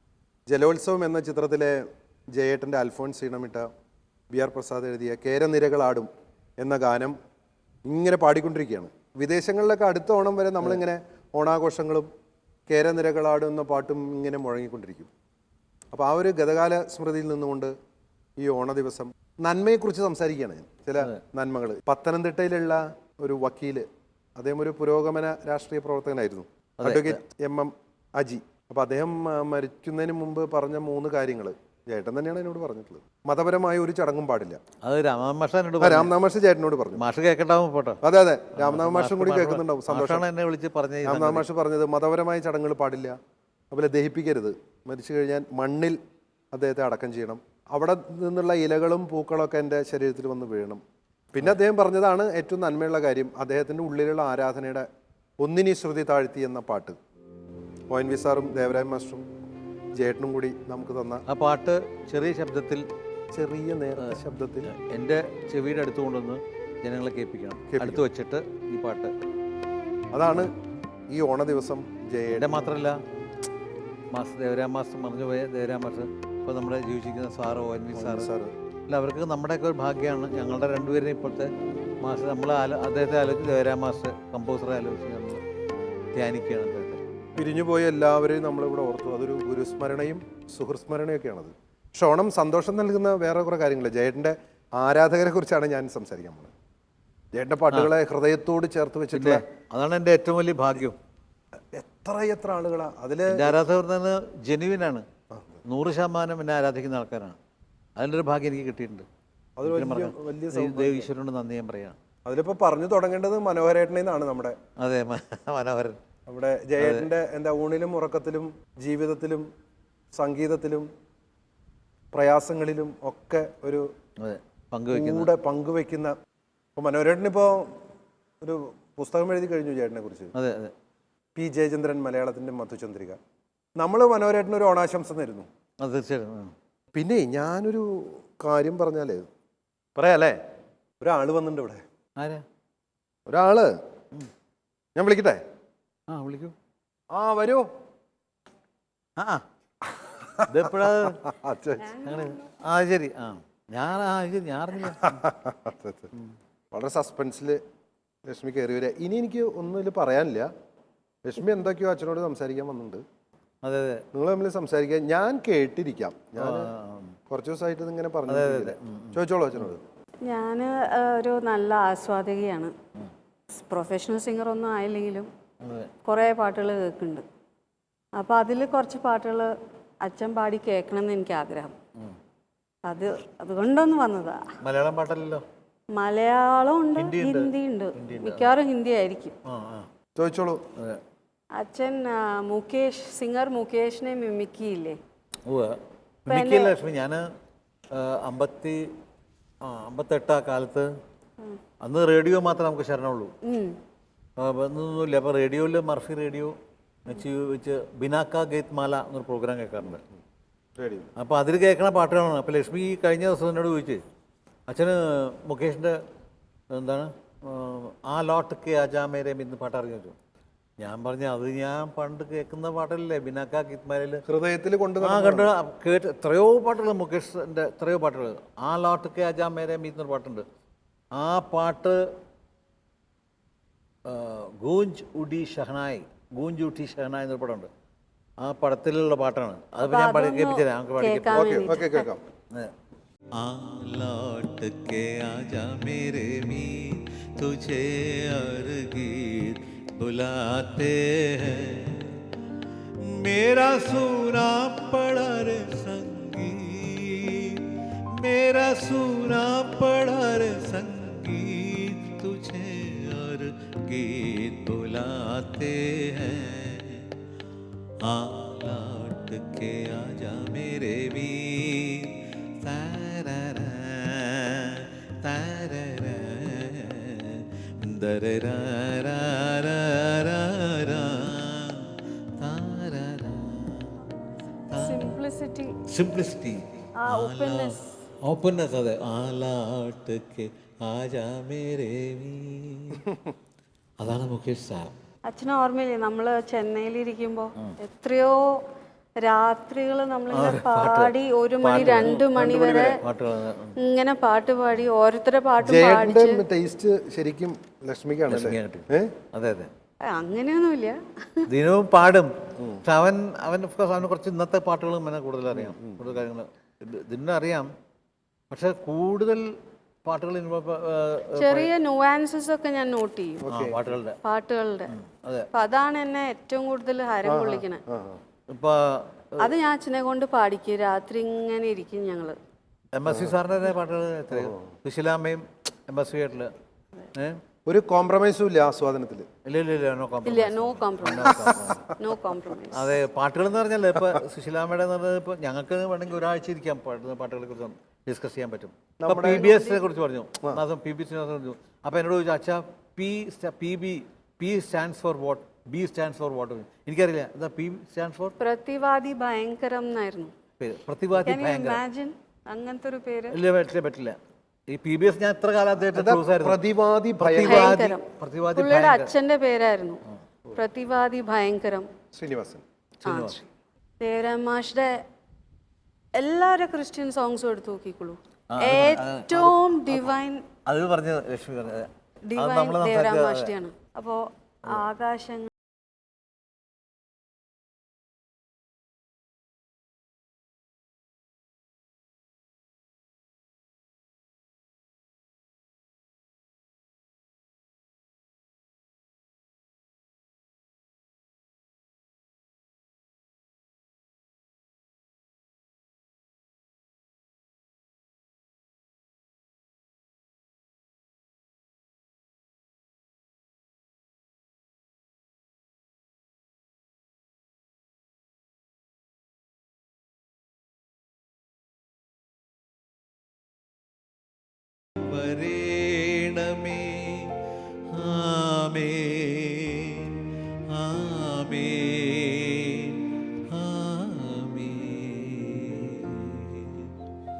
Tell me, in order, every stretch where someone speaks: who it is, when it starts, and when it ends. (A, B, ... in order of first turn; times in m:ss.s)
0:00.5-0:01.8 A
0:02.3-0:03.7 A
0:04.3-0:07.2 A
0:07.8-0:12.1 A
0:12.7-0:15.1 A
0:15.9-0:17.7 A
0:18.4-0:23.8 A
0:24.4-0:34.6 A
0:26.8-0:27.2 B
0:34.8-0:36.1 B
0:35.8-0:37.0 A
0:37.0-0:38.0 B
0:38.0-0:40.2 A
0:38.6-0:41.4 B
0:41.0-0:43.2 A
0:43.7-0:46.0 A
0:46.5-0:50.8 A
0:51.3-0:54.9 A
0:55.4-0:57.0 A
0:57.9-0:59.2 A
0:59.9-1:01.2 A
1:01.3-1:02.9 B
1:03.3-1:04.7 A
1:04.0-1:09.1 B
1:07.7-1:08.0 A
1:10.1-1:10.5 A
1:11.1-1:12.6 A
1:12.3-1:13.0 B
1:14.1-1:18.3 B
1:17.9-1:18.5 A
1:18.9-1:25.4 B
1:26.1-1:27.0 B
1:27.4-1:36.5 A
1:37.3-1:39.4 A
1:39.1-1:41.0 B
1:41.7-1:43.6 A
1:43.3-1:45.0 B
1:45.3-1:45.6 A
1:45.6-1:47.4 B
1:48.0-1:49.0 B
1:49.6-1:51.1 A
1:49.6-1:52.0 B
1:52.2-1:54.6 A
1:54.8-1:56.0 B
1:56.3-1:59.5 A
1:56.8-1:57.1 B
2:00.1-2:00.9 A
2:02.1-2:03.9 A
2:04.2-2:05.3 B
2:04.9-2:06.1 A
2:06.8-2:07.8 A
2:08.4-2:10.3 A
2:10.3-2:10.7 B
2:11.3-2:13.2 A
2:13.8-2:15.5 A
2:15.8-2:16.5 B
2:16.9-2:19.2 A
2:20.0-2:20.4 A
2:21.0-2:21.8 A
2:22.2-2:22.4 B
2:23.3-2:23.7 A
2:24.9-2:25.4 A
2:26.1-2:26.5 B
2:27.1-2:27.7 A
2:29.2-2:29.4 B
2:29.9-2:32.0 A
2:30.5-2:31.2 B
2:32.0-2:35.2 B
2:32.0-2:32.4 C
2:34.8-2:36.1 A
2:36.7-2:37.6 A
2:38.2-2:40.5 A
2:41.2-2:43.0 A
2:43.6-2:44.0 B
2:44.1-2:46.7 A
2:46.4-2:47.2 B
2:47.3-2:49.8 A
2:48.3-2:49.6 B
2:50.2-2:52.7 C
2:53.5-2:55.3 C
2:55.6-2:55.9 B
2:56.0-2:57.2 C
2:58.2-2:59.5 C
3:00.0-3:01.7 C
3:02.8-3:04.4 C
3:04.6-3:05.4 B
3:05.9-3:09.3 C
3:07.0-3:08.5 B
3:09.4-3:09.9 B
3:10.2-3:10.6 A
3:11.5-3:15.0 C
3:15.4-3:17.3 B
3:16.3-3:16.8 C
3:17.9-3:18.8 B
3:19.6-3:20.9 B
3:21.8-3:23.3 B
3:23.4-3:23.8 C
3:24.4-3:26.5 B
3:27.0-3:30.0 B
3:30.8-3:31.1 A
3:31.2-3:34.0 B
3:34.7-3:36.0 B
3:36.7-3:40.1 B
3:40.8-3:44.2 B
3:44.2-3:45.5 A
3:45.0-3:50.4 B
3:51.1-3:52.0 B
3:54.0-3:57.7 B
3:58.4-4:01.7 B
3:59.8-4:02.1 C
4:01.3-4:02.2 A
4:03.4-4:12.2 B
4:13.0-4:27.1 B
4:28.0-4:44.0 B
4:44.7-4:45.8 C
4:44.7-4:45.1 B
4:45.8-4:53.0 B
4:47.0-4:47.9 C
4:53.0-4:53.3 A
4:54.0-4:54.9 B
4:55.3-4:58.4 C
4:59.2-5:03.0 C
5:00.3-5:02.3 B
5:01.8-5:03.0 A
5:03.0-5:03.8 B
5:03.8-5:06.4 C
5:05.6-5:09.1 A
5:08.3-5:09.7 B
5:10.1-5:11.5 C
5:11.5-5:12.3 B
5:12.6-5:12.8 A
5:12.8-5:17.7 B
5:15.5-5:16.2 A
5:18.5-5:19.5 B
5:20.0-5:21.7 B
5:21.3-5:23.5 C
5:23.4-5:23.8 A
5:23.5-5:24.2 B
5:24.2-5:24.9 C
5:24.9-5:25.5 B
5:25.5-5:27.8 C
5:27.2-5:28.2 A
5:28.5-5:29.5 B
5:29.4-5:32.4 C
5:32.9-5:36.5 B
5:33.0-5:33.4 A
5:34.3-5:34.7 A
5:37.6-5:39.3 A
5:39.4-5:42.0 B
5:40.2-5:43.0 C
5:42.7-5:58.4 B
5:44.0-5:44.2 A
5:49.0-5:49.7 A
5:49.4-5:49.8 C
5:58.4-6:00.3 C
6:00.6-6:01.8 B
6:01.2-6:03.4 C
6:03.3-6:04.2 B
6:04.7-6:06.6 B
6:05.8-6:07.8 A
6:07.2-6:09.1 B
6:07.4-6:10.0 C
6:10.5-6:11.9 C
6:12.1-6:12.6 A
6:13.0-6:13.4 B
6:13.0-6:13.4 C
6:14.0-6:15.0 C
6:16.2-6:20.4 C
6:18.5-6:23.5 B
6:22.3-6:25.5 C
7:05.0-7:07.4 B
7:07.9-7:10.2 B
7:10.7-7:16.9 B